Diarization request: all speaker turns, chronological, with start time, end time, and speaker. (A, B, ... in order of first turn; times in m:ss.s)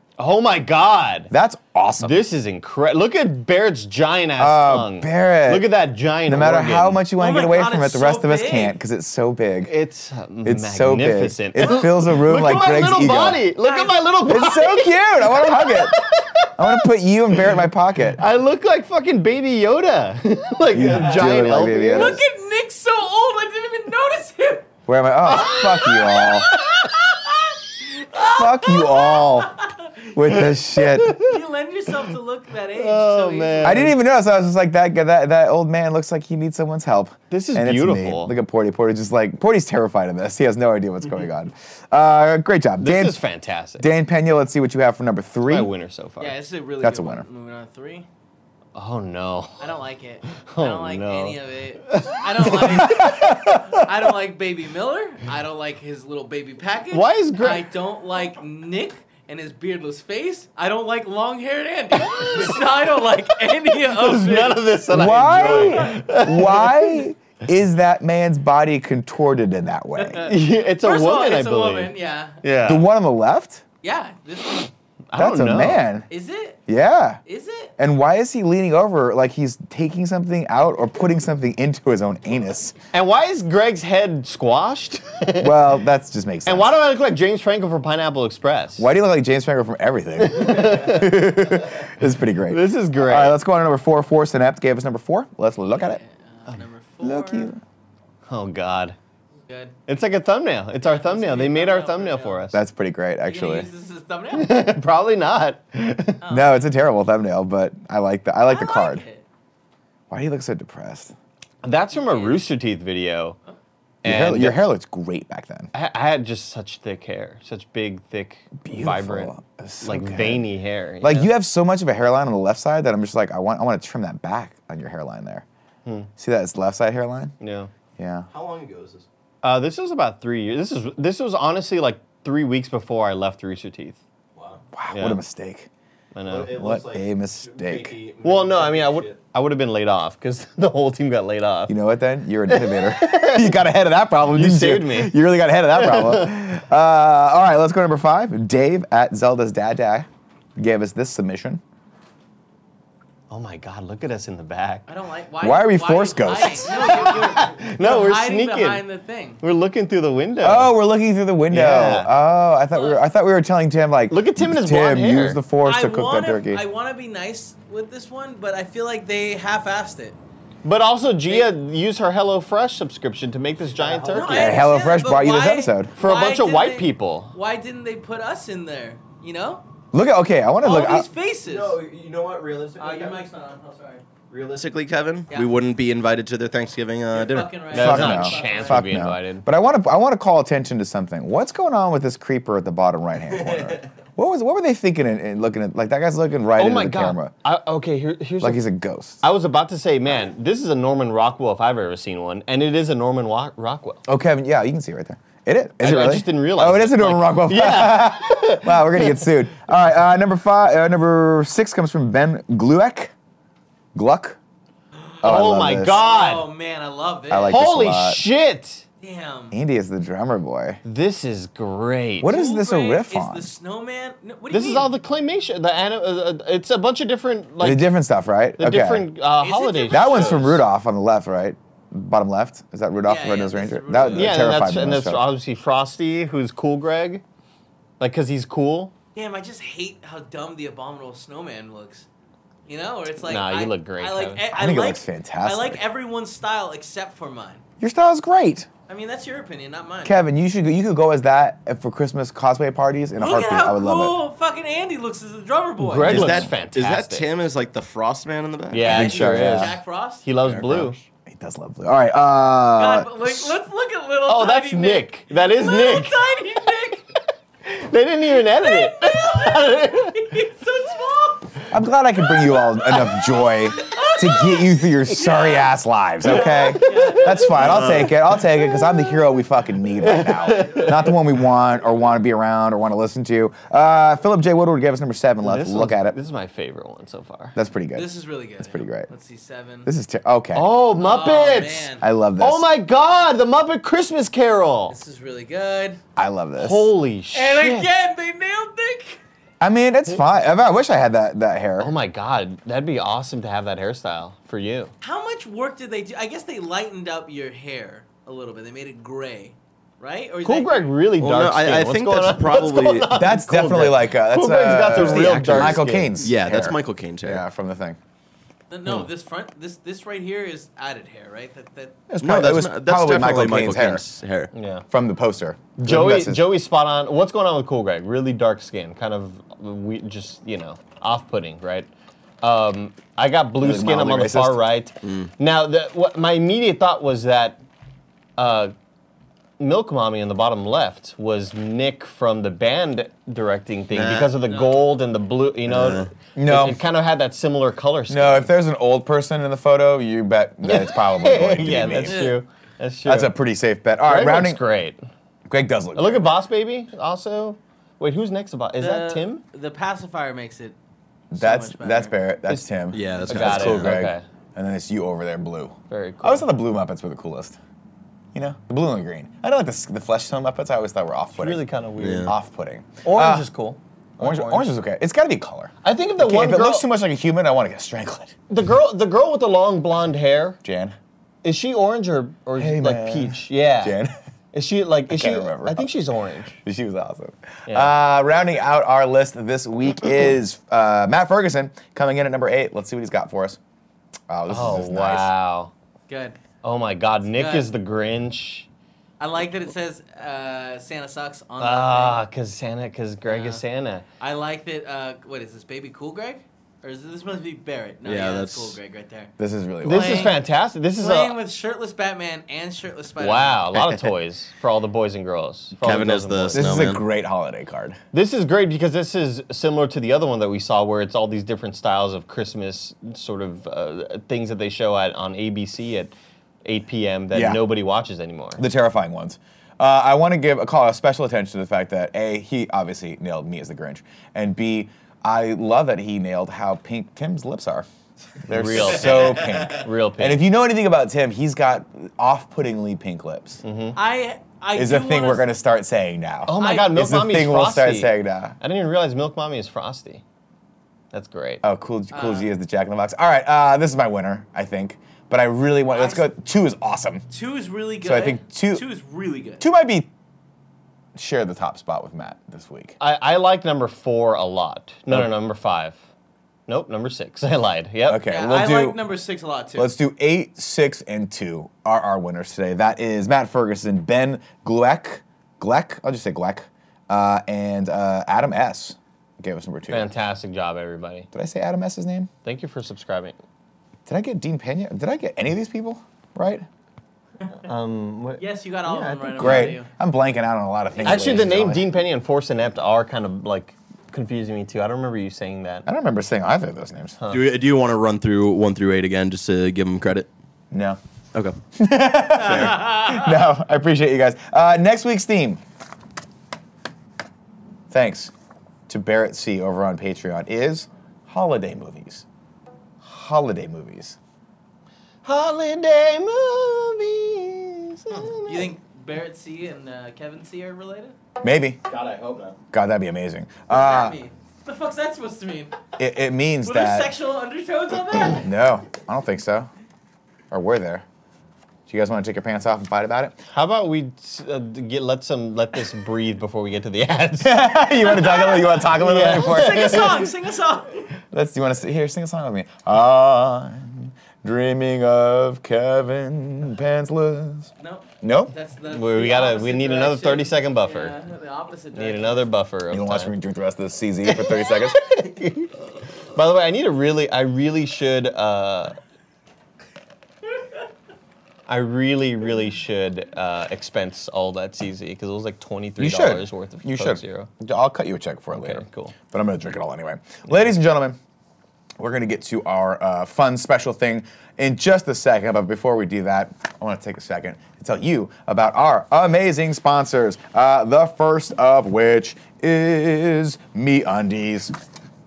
0:00.2-0:01.3 A
0:01.3-0:02.3 B
0:02.0-0:07.0 A
0:04.4-0:05.7 B
0:06.2-0:09.7 B
0:07.2-0:08.8 C
0:09.6-0:16.8 A
0:10.4-0:13.4 B
0:13.6-0:14.9 C
0:14.3-0:16.0 B
0:16.6-0:18.2 B
0:18.2-0:22.2 A
0:20.7-0:22.2 B
0:21.9-0:24.7 C
0:24.9-0:26.5 B
0:25.2-0:30.1 C
0:28.2-0:29.5 B
0:30.1-0:31.1 B
0:30.7-0:31.3 A
0:31.2-0:33.9 C
0:32.8-0:33.9 A
0:33.6-0:43.2 B
0:37.3-0:38.3 A
0:42.8-0:43.9 A
0:43.8-0:45.7 B
0:45.5-0:46.4 A
0:46.2-0:48.1 C
0:46.8-0:47.2 B
0:48.8-0:49.7 A
0:49.6-1:04.7 C
0:50.3-0:52.9 A
0:52.6-0:53.6 B
0:56.9-0:57.7 A
1:02.0-1:02.6 A
1:03.9-1:07.0 A
1:04.9-1:10.3 B
1:05.5-1:05.9 C
1:10.1-1:12.4 C
1:10.1-1:12.9 A
1:12.6-1:13.6 B
1:13.8-1:14.7 C
1:15.1-1:15.8 A
1:15.2-1:16.1 B
1:16.1-1:16.6 C
1:16.7-1:17.2 B
1:17.3-1:17.7 C
1:17.8-1:22.8 B
1:22.9-1:25.6 A
1:25.4-1:26.8 B
1:26.4-1:28.9 A
1:28.8-1:36.0 B
1:30.2-1:31.1 A
1:32.5-1:33.4 A
1:35.7-1:37.5 C
1:37.0-1:37.6 B
1:38.3-1:39.0 A
1:39.5-1:39.8 C
1:39.9-1:42.6 A
1:40.8-1:42.5 C
1:42.5-1:43.7 B
1:43.3-1:44.8 C
1:44.3-1:46.2 A
1:46.2-1:46.6 C
1:46.3-1:49.0 B
1:48.4-1:49.2 C
1:50.1-1:51.2 B
1:51.6-1:53.4 A
1:51.9-1:52.4 C
1:54.0-1:54.6 A
1:54.0-1:55.7 B
1:55.7-2:01.3 A
1:58.6-2:00.5 B
2:01.0-2:05.4 B
2:06.2-2:07.3 B
2:07.4-2:07.7 A
2:08.0-2:08.3 B
2:08.3-2:09.1 D
2:09.4-2:14.0 A
2:14.4-2:14.6 D
2:14.7-2:15.7 B
2:14.9-2:15.2 A
2:16.1-2:16.6 A
2:16.2-2:19.2 D
2:16.5-2:18.0 B
2:18.2-2:21.7 A
2:21.7-2:31.6 B
2:22.5-2:23.6 A
2:24.3-2:25.2 A
2:25.8-2:26.3 A
2:33.3-2:34.9 A
2:34.9-2:39.4 C
2:35.4-2:37.0 B
2:36.7-2:38.8 A
2:39.4-2:40.7 A
2:40.4-2:46.6 B
2:41.5-2:42.1 A
2:42.7-2:43.0 C
2:44.1-2:45.4 A
2:45.6-2:50.2 C
2:50.6-2:54.6 A
2:53.7-2:54.5 D
2:54.1-2:59.6 C
2:54.3-2:55.9 B
2:56.0-2:57.4 A
2:59.9-3:01.1 B
3:00.6-3:01.8 C
3:01.4-3:03.2 D
3:02.8-3:04.0 C
3:04.3-3:07.8 D
3:07.1-3:08.9 C
3:07.7-3:09.5 A
3:07.8-3:17.3 B
3:13.4-3:13.8 D
3:16.6-3:18.6 A
3:18.4-3:19.2 B
3:19.2-3:24.0 A
3:24.1-3:33.1 B
3:25.8-3:29.3 A
3:34.0-3:34.4 B
3:35.2-3:36.0 B
3:35.2-3:36.5 A
3:35.9-3:37.6 C
3:37.3-3:38.2 B
3:37.5-3:38.8 A
3:39.0-3:39.6 C
3:39.5-3:40.8 B
3:40.8-3:42.3 A
3:42.2-3:43.5 B
3:42.2-3:44.9 C
3:44.5-3:47.9 A
3:47.6-3:49.1 B
3:48.6-3:50.6 A
3:49.4-3:50.6 C
3:49.9-3:55.3 B
3:53.0-3:54.5 C
3:54.1-3:57.2 A
3:58.0-3:58.9 A
3:59.2-4:02.1 C
4:02.7-4:07.6 C
4:03.2-4:04.4 A
4:04.5-4:05.8 B
4:07.8-4:08.7 B
4:08.9-4:10.2 C
4:10.0-4:14.2 B
4:13.2-4:16.3 C
4:15.8-4:17.3 A
4:16.0-4:19.6 D
4:16.1-4:16.5 B
4:18.7-4:21.0 A
4:18.8-4:19.8 B
4:18.8-4:20.3 C
4:20.3-4:21.0 D
4:21.3-4:23.6 B
4:22.8-4:27.0 C
4:24.3-4:26.2 A
4:27.6-4:30.3 A
4:28.5-4:31.7 C
4:31.7-4:46.2 B
4:32.3-4:35.6 C
4:35.1-4:35.4 A
4:36.3-4:38.1 C
4:36.3-4:38.8 A
4:40.0-4:41.0 A
4:45.4-4:47.6 A
4:47.6-4:48.1 B
4:47.9-4:49.9 C
4:48.6-4:49.1 B
4:49.8-4:50.7 B
4:50.5-4:55.0 A
4:51.0-4:52.0 C
4:52.0-4:52.7 B
4:54.9-4:56.0 C
4:56.2-4:56.9 B
4:56.6-4:57.9 A
4:57.3-4:59.2 C
4:59.6-5:01.9 B
5:01.8-5:04.9 A
5:05.0-5:11.0 C
5:10.4-5:16.2 A
5:11.2-5:13.1 D
5:13.1-5:18.0 B
5:14.9-5:17.4 D
5:18.7-5:22.0 C
5:22.1-5:24.0 B
5:22.2-5:24.5 D
5:24.5-5:24.8 A
5:24.9-5:26.5 B
5:25.8-5:31.9 A
5:32.4-5:37.6 A
5:33.6-5:34.6 B
5:35.0-5:35.3 D
5:38.4-5:38.7 A
5:39.6-5:48.5 A
5:43.9-5:44.4 D
5:44.5-5:44.8 C
5:45.7-5:46.1 D
5:46.4-5:46.8 B
5:48.1-5:52.3 B
5:50.6-5:53.3 A
5:51.7-5:52.4 C
5:53.0-5:54.6 B
5:54.0-5:55.0 A
5:55.5-5:56.3 B
5:56.0-5:59.4 A
5:58.8-6:00.8 C
6:01.3-6:07.6 B
6:01.3-6:02.1 C
6:02.5-6:04.2 A
6:02.9-6:04.0 D
6:05.9-6:06.5 A
6:08.3-6:11.7 B
6:11.4-6:12.3 A
6:12.0-6:12.3 D
6:12.2-6:13.5 B
6:13.0-6:14.7 A
6:14.2-6:18.4 B
6:15.8-6:16.9 A
6:18.5-6:20.6 A
6:20.6-6:21.0 B
6:21.4-6:24.0 A
6:22.6-6:24.1 B
6:24.5-6:26.6 A
6:25.1-6:25.9 B
6:26.6-6:33.6 B
6:27.7-6:27.9 A
6:34.3-6:35.3 B
6:34.5-6:35.7 A
6:36.1-6:36.4 C
6:36.6-6:38.7 A
6:37.3-6:37.7 C
6:39.2-6:42.2 C
6:41.6-6:44.0 A
6:43.3-6:43.6 C
6:44.2-6:49.3 C
6:48.0-6:48.8 D
6:49.4-6:50.4 B
6:49.8-6:51.4 A
6:49.8-6:50.4 C
6:51.0-6:53.7 C
6:53.2-6:56.8 A
6:55.8-6:57.0 D
6:56.5-6:58.0 B
6:58.1-7:08.6 A
7:07.3-7:07.6 B
7:08.6-7:17.9 B
7:18.4-7:23.6 B
7:18.5-7:20.4 A
7:23.6-7:24.0 A
7:24.0-7:25.5 C
7:24.8-7:28.6 B
7:26.5-7:30.2 A
7:26.6-7:26.9 C
7:31.1-7:31.6 A
7:31.6-7:37.2 B
7:32.1-7:32.5 C
7:35.9-7:36.3 C
7:37.3-7:39.6 C
7:38.0-7:38.8 B
7:39.6-7:40.1 B
7:41.2-7:43.0 B
7:43.0-7:46.0 A
7:46.7-7:48.3 A
7:48.1-7:49.0 B
7:48.3-7:49.9 C
7:49.8-8:00.1 B
7:59.9-8:01.3 A
8:01.3-8:02.3 B
8:02.4-8:03.4 A
8:04.1-8:06.7 B
8:07.6-8:09.8 A
8:08.4-8:09.9 C
8:09.4-8:11.9 B
8:11.0-8:15.9 A
8:11.0-8:11.4 C
8:15.9-8:17.2 B
8:17.2-8:17.5 A
8:17.3-8:20.3 D
8:20.7-8:21.0 B
8:21.8-8:25.6 B
8:22.5-8:23.3 C
8:27.9-8:28.3 B
8:28.9-8:32.3 B
8:33.0-8:34.2 B
8:35.2-8:38.7 A
8:38.5-8:41.2 C
8:41.4-8:41.8 B
8:41.9-8:42.6 D
8:42.7-8:44.2 B
8:43.7-8:45.8 C
8:46.0-8:47.1 B
8:46.6-8:48.5 C
8:48.3-8:49.7 B
8:50.5-8:51.0 B
8:51.9-8:53.4 B
8:53.5-8:57.8 A
8:57.4-9:00.3 B
8:58.1-9:01.1 C
8:59.0-9:00.3 A
9:01.3-9:07.7 B
9:07.8-9:12.5 C
9:08.2-9:08.5 B
9:08.9-9:11.2 A
9:11.9-9:13.3 A
9:12.9-9:15.0 B
9:15.1-9:15.7 A
9:16.3-9:19.0 A
9:21.7-9:27.5 A
9:26.0-9:31.2 B
9:28.5-9:29.2 A
9:32.0-9:44.7 B